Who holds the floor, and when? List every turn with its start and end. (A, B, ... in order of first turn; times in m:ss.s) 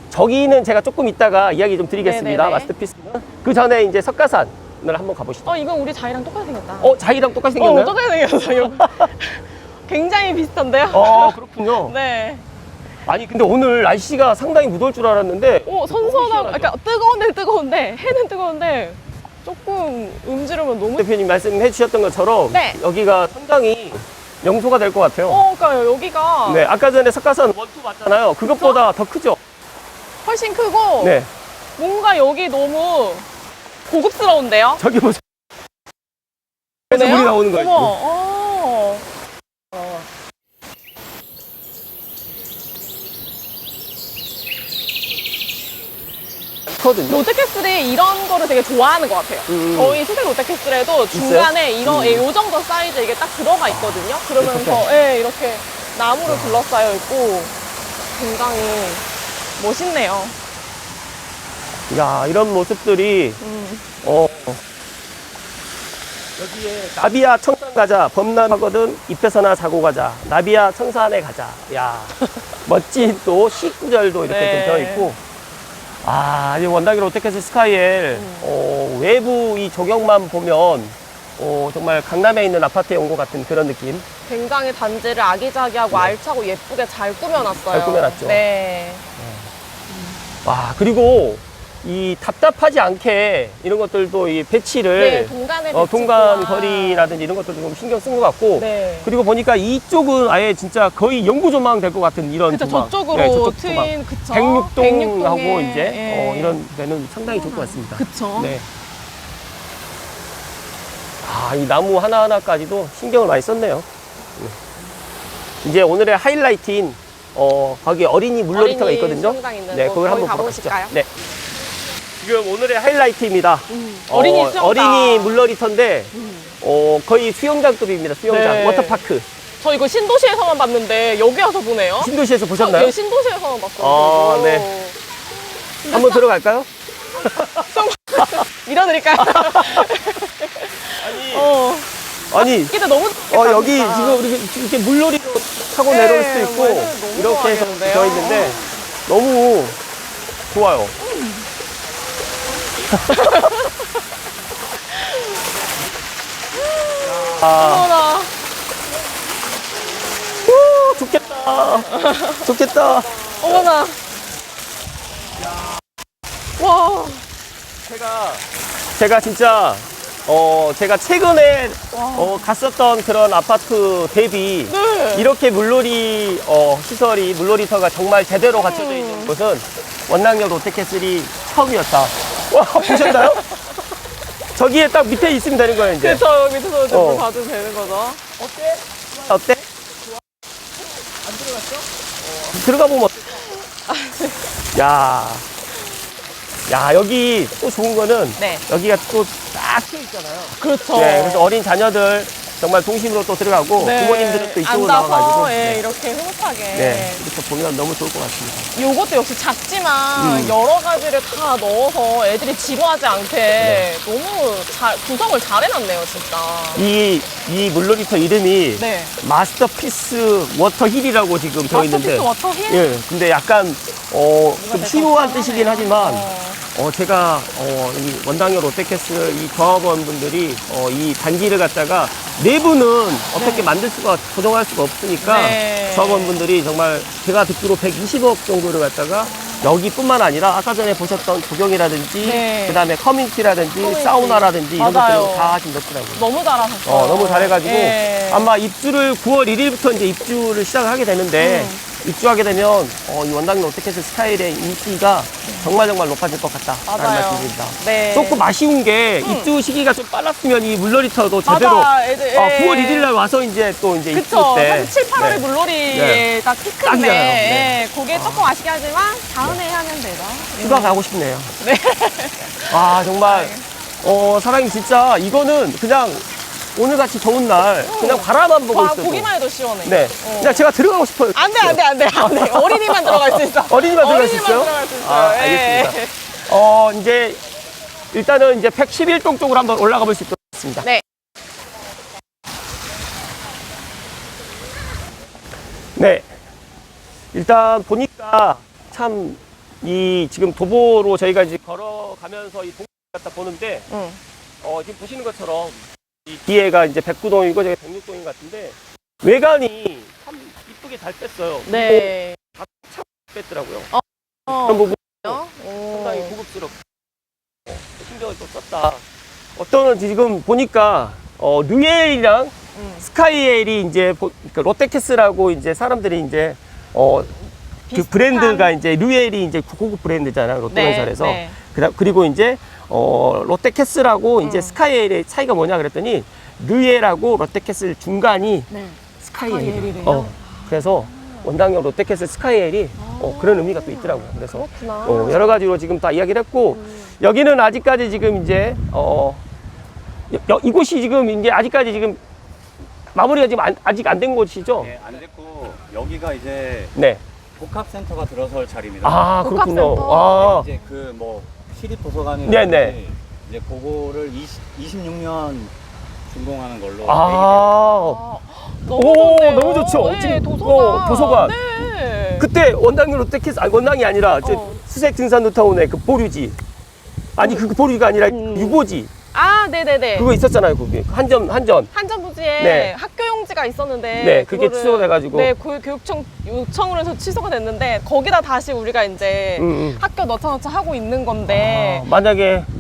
0:00.1-0:05.5 A
0:02.0-0:02.7 B
0:05.5-0:07.0 B
0:06.8-0:08.0 A
0:07.6-0:12.4 B
0:08.7-0:09.0 A
0:10.9-0:12.0 A
0:13.1-0:16.7 A
0:15.7-0:21.1 B
0:21.0-0:25.4 A
0:22.5-0:22.8 B
0:25.3-0:26.7 B
0:26.5-0:29.4 A
0:28.4-0:28.8 B
0:30.2-0:31.2 B
0:31.0-0:31.3 A
0:31.8-0:33.3 B
0:33.9-0:34.8 B
0:34.8-0:35.2 A
0:36.9-0:38.0 A
0:36.9-0:39.1 B
0:39.7-0:40.1 B
0:46.7-0:47.2 A
0:47.1-0:57.6 B
0:49.5-0:50.0 A
0:51.1-0:52.2 A
0:53.7-0:54.9 A
0:56.2-0:56.6 A
0:58.1-1:00.4 B
1:01.9-1:03.4 A
1:03.4-1:03.9 B
1:04.0-1:04.6 A
1:06.4-1:15.2 A
1:14.3-1:15.1 B
1:16.0-1:24.0 A
1:18.1-1:18.5 B
1:24.3-1:29.0 B
1:27.7-1:28.4 A
1:29.2-1:29.5 A
1:30.4-1:48.7 A
1:35.0-1:37.2 B
1:38.6-1:39.1 B
1:42.5-1:46.6 B
1:47.3-1:48.6 B
1:51.2-1:53.9 A
1:55.6-2:01.1 A
1:58.5-2:01.0 B
2:02.2-2:09.3 A
2:03.7-2:05.5 B
2:06.1-2:06.5 B
2:08.3-2:09.0 B
2:09.6-2:15.0 B
2:12.0-2:12.9 A
2:13.8-2:14.7 A
2:15.8-2:16.2 B
2:15.9-2:18.4 A
2:17.5-2:24.2 B
2:19.4-2:19.8 A
2:21.0-2:21.5 A
2:22.3-2:22.8 A
2:23.3-2:29.8 A
2:25.8-2:28.7 B
2:30.5-2:31.0 A
2:31.0-2:31.5 B
2:32.9-2:33.5 A
2:33.1-2:33.8 B
2:34.9-2:35.4 B
2:36.5-2:38.4 B
2:37.0-2:37.9 A
2:40.4-2:43.7 A
2:41.7-2:42.5 B
2:43.4-2:44.0 B
2:46.6-2:47.3 B
2:47.8-3:03.5 A
2:51.9-2:52.5 B
2:54.7-2:55.3 B
2:58.5-2:59.3 B
3:02.8-3:03.5 B
3:04.6-3:06.2 A
3:05.7-3:08.2 B
3:06.9-3:07.3 A
3:08.4-3:09.7 A
3:11.3-3:13.5 A
3:13.9-3:14.4 B
3:14.7-3:15.5 A
3:16.7-3:25.8 A
3:18.4-3:18.6 B
3:20.6-3:21.5 B
3:23.8-3:27.2 B
3:26.7-3:28.7 A
3:28.7-3:36.9 B
3:30.2-3:30.6 A
3:33.6-3:33.9 A
3:36.8-4:06.3 A
3:38.8-3:39.2 B
3:41.7-3:42.9 B
3:44.6-3:46.6 B
3:53.4-3:53.7 B
3:55.2-3:56.4 B
3:59.3-3:59.7 B
4:02.2-4:02.9 B
4:03.8-4:05.6 B
4:06.2-4:08.5 B
4:06.8-4:26.3 A
4:11.4-4:11.8 B
4:15.5-4:15.7 B
4:16.9-4:18.4 B
4:19.2-4:19.5 B
4:21.4-4:23.1 B
4:24.1-4:31.0 B
4:26.8-4:28.5 A
4:30.6-4:31.5 A
4:31.6-4:33.7 B
4:32.7-4:39.3 A
4:37.8-4:40.7 B
4:39.8-4:47.4 A
4:41.3-4:46.4 B
4:48.1-4:50.9 A
4:56.0-4:56.3 A
4:57.3-5:03.9 A
5:03.9-5:04.2 B
5:04.6-5:13.9 A
5:11.7-5:12.4 B
5:13.9-5:16.4 B
5:14.5-5:15.4 A
5:15.9-5:16.8 A
5:17.7-5:19.0 A
5:19.6-5:27.4 A
5:22.8-5:23.0 B
5:27.9-5:28.7 B
5:27.9-5:38.7 A
5:30.7-5:31.6 B
5:34.4-5:34.8 B
5:38.7-5:41.5 B
5:39.2-5:49.4 A
5:43.0-5:45.6 B
5:46.7-5:47.2 B
5:50.3-5:52.2 A
5:53.1-5:54.9 A
5:54.8-5:56.9 C
5:57.0-5:57.2 A
5:57.6-5:59.3 C
5:59.0-6:00.7 A
5:59.4-6:00.7 B
6:00.1-6:05.8 C
6:02.5-6:03.0 A
6:06.3-6:07.7 C
6:07.1-6:08.2 A
6:07.9-6:12.5 B
6:08.9-6:11.6 A
6:12.4-6:16.6 A
6:14.4-6:14.8 B
6:17.4-6:19.1 A
6:18.3-6:20.3 B
6:20.2-6:21.9 A
6:21.9-6:32.1 B
6:22.6-6:22.9 A
6:24.2-6:25.5 A
6:29.6-6:30.0 A
6:31.5-6:32.7 A